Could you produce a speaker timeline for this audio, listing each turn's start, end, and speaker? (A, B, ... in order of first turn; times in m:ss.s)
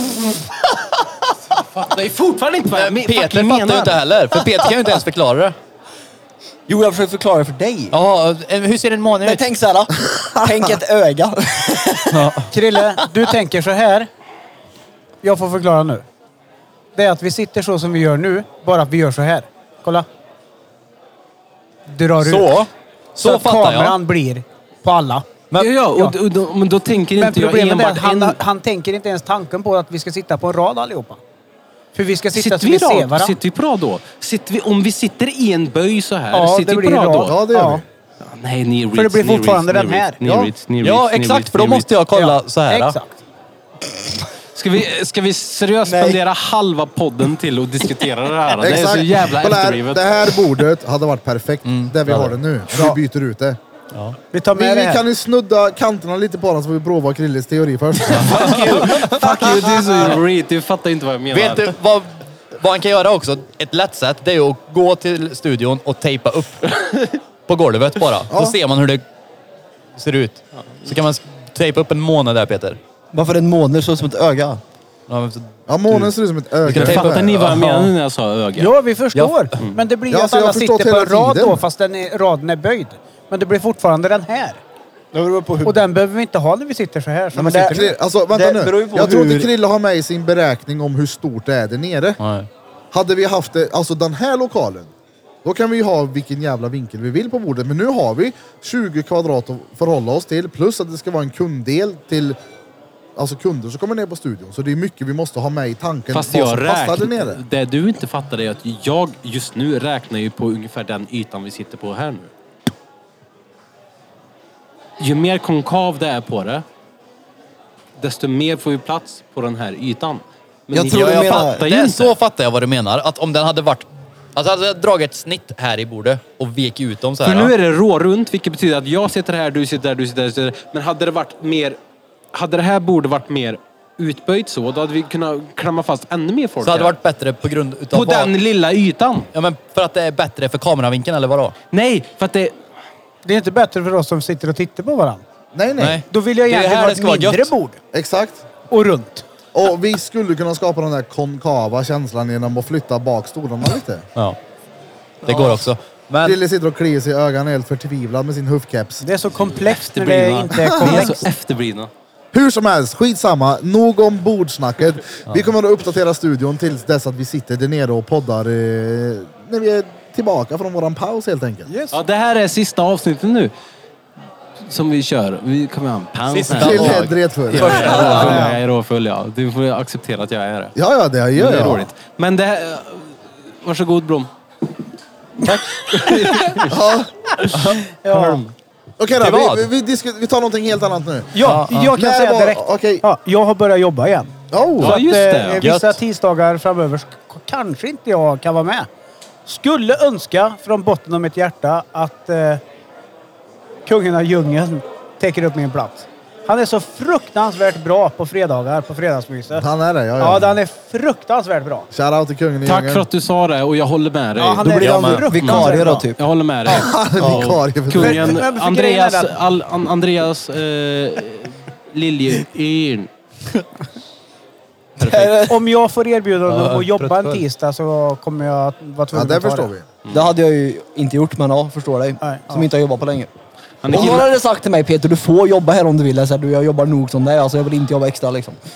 0:01.5-0:04.0 A
0:02.7-0:05.5 B
0:06.7-0:07.9 C
0:07.9-0:09.4 B
0:09.2-0:12.3 C
0:10.1-0:10.6 D
0:12.1-0:12.5 B
0:12.5-0:14.1 E
0:15.2-0:16.0 E
0:16.9-0:20.1 E
0:21.9-0:22.6 E
0:22.2-0:24.0 B
0:23.2-0:25.3 E
0:25.6-0:28.4 A
0:25.9-0:26.2 E
0:27.2-0:31.2 E
0:31.9-0:33.4 E
0:32.3-0:37.3 A
0:36.3-0:37.8 E
0:37.2-0:37.8 D
0:38.2-0:41.9 A
0:38.9-0:40.2 E
0:40.2-0:40.5 D
0:40.8-0:43.0 B
0:42.1-0:43.2 E
0:44.6-0:50.4 A
0:45.8-0:46.2 C
0:48.6-0:53.6 D
0:51.6-0:52.3 B
0:54.3-0:55.0 E
0:54.5-0:58.9 D
0:58.1-0:59.4 B
0:58.3-1:01.7 A
1:01.3-1:06.9 B
1:07.5-1:09.0 B
1:08.3-1:08.6 D
1:10.0-1:12.8 B
1:13.1-1:14.6 C
1:15.1-1:16.1 B
1:15.7-1:17.5 D
1:16.6-1:17.9 B
1:16.7-1:18.7 A
1:18.6-1:24.6 E
1:20.1-1:21.6 D
1:25.1-1:25.8 C
1:25.6-1:27.9 E
1:27.3-1:29.5 C
1:27.7-1:32.2 D
1:32.2-1:32.5 B
1:32.9-1:34.9 D
1:35.4-1:42.4 D
1:43.2-1:47.4 D
1:46.1-1:52.3 A
1:55.0-1:56.6 A
1:58.0-2:02.1 A
2:00.7-2:01.6 C
2:00.9-2:07.5 B
2:07.2-2:11.8 A
2:12.3-2:16.9 A
2:16.6-2:18.3 B
2:17.9-2:19.3 A
2:19.3-2:21.5 B
2:21.7-2:22.5 A
2:23.2-2:25.2 E
2:25.5-2:26.0 D
2:25.8-2:27.5 B
2:26.1-2:27.8 E
2:27.9-2:28.4 D
2:28.7-2:29.2 E
2:29.5-2:34.1 D
2:35.2-2:36.4 B
2:35.3-2:35.7 D
2:36.2-2:39.0 D
2:39.0-2:41.3 E
2:39.6-2:41.9 A
2:42.3-2:51.7 D
2:51.7-2:52.0 E
2:51.9-2:53.5 A
2:54.6-3:00.7 A
2:56.3-2:58.5 B
2:56.5-2:58.3 D
2:58.0-2:58.6 E
3:00.8-3:01.9 D
3:01.4-3:04.3 A
3:05.5-3:06.8 A
3:06.7-3:07.3 D
3:07.6-3:07.8 B
3:08.0-3:08.4 E
3:08.0-3:08.5 A
3:09.0-3:13.0 D
3:09.2-3:09.7 B
3:11.3-3:18.9 E
3:11.4-3:11.9 B
3:14.5-3:15.0 D
3:14.8-3:15.6 A
3:15.6-3:16.0 B
3:19.4-3:22.6 E
3:23.8-3:29.6 E
3:29.6-3:30.6 D
3:30.2-3:31.9 E
3:31.9-3:33.1 D
3:32.6-3:34.7 A
3:34.4-3:36.1 E
3:34.6-3:36.2 C
3:34.8-3:35.8 B
3:36.2-3:43.1 A
3:36.7-3:38.4 D
3:37.2-3:37.5 C
3:37.9-3:39.3 E
3:45.0-3:45.6 C
3:45.0-3:45.3 A
3:45.5-3:49.7 E
3:46.5-3:47.4 B
3:49.1-3:49.9 D
3:50.0-3:50.3 A
3:50.1-3:53.3 C
3:52.2-3:52.7 E
3:53.8-3:54.3 A
3:53.8-3:58.6 C